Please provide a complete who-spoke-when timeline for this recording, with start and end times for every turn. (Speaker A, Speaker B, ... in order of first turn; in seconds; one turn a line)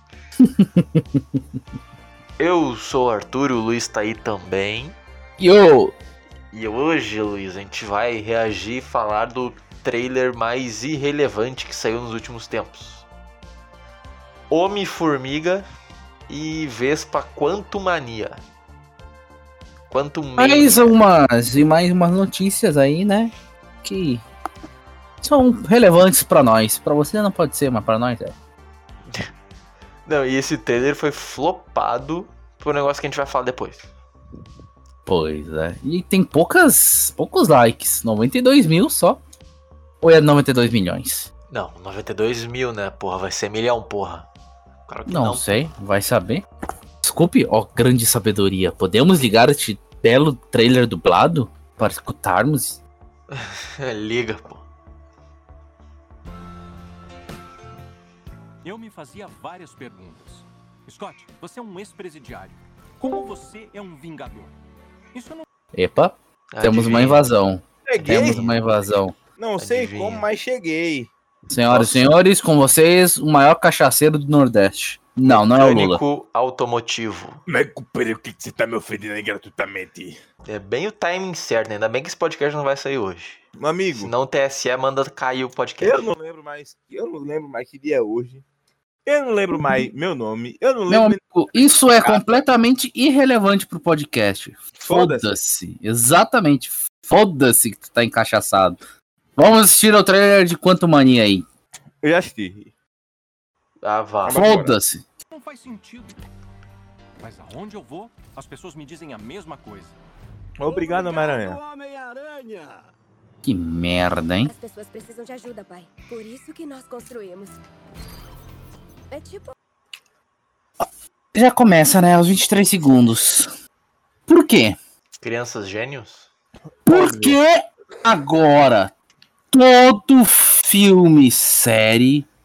Speaker A: 0.4-1.4
Speaker B: 2.4-5.0
Speaker A: 5.4-5.9
Speaker B: 6.5-13.1
Speaker B: 14.5-15.7
Speaker B: 16.3-18.4
Speaker B: 19.9-21.0
Speaker A: 20.4-23.3
Speaker A: 23.8-24.2
Speaker A: 25.2-28.3
Speaker B: 30.0-33.9
Speaker A: 35.0-39.2
Speaker A: 40.0-41.3
Speaker B: 41.5-44.3
Speaker B: 44.9-45.6
Speaker A: 45.1-46.4
Speaker A: 47.0-52.8
Speaker B: 53.3-54.6
Speaker C: 58.6-64.5
Speaker C: 65.1-65.5
Speaker A: 65.7-69.2
Speaker B: 66.5-67.3
Speaker D: 67.9-68.4
Speaker B: 68.1-68.5
Speaker D: 69.4-71.1
Speaker B: 69.6-70.2
Speaker A: 71.5-76.0
Speaker B: 75.2-77.4
Speaker D: 77.5-80.2
Speaker B: 80.4-83.4
Speaker D: 83.6-84.1
Speaker B: 84.0-86.0
Speaker D: 85.8-88.4
Speaker D: 89.0-91.0
Speaker A: 90.9-98.8
Speaker D: 94.9-95.3
Speaker A: 99.4-101.4
Speaker D: 102.0-102.7
Speaker B: 103.8-104.4
Speaker D: 104.3-104.7
Speaker A: 104.3-105.0
Speaker C: 105.3-106.2
Speaker C: 107.2-110.0
Speaker D: 110.6-111.6
Speaker C: 111.0-112.8
Speaker A: 113.4-114.5
Speaker E: 114.4-117.6
Speaker E: 119.1-119.5
Speaker A: 121.3-123.5
Speaker A: 124.3-124.8
Speaker B: 125.2-126.3
Speaker A: 126.8-128.9
Speaker A: 129.5-132.3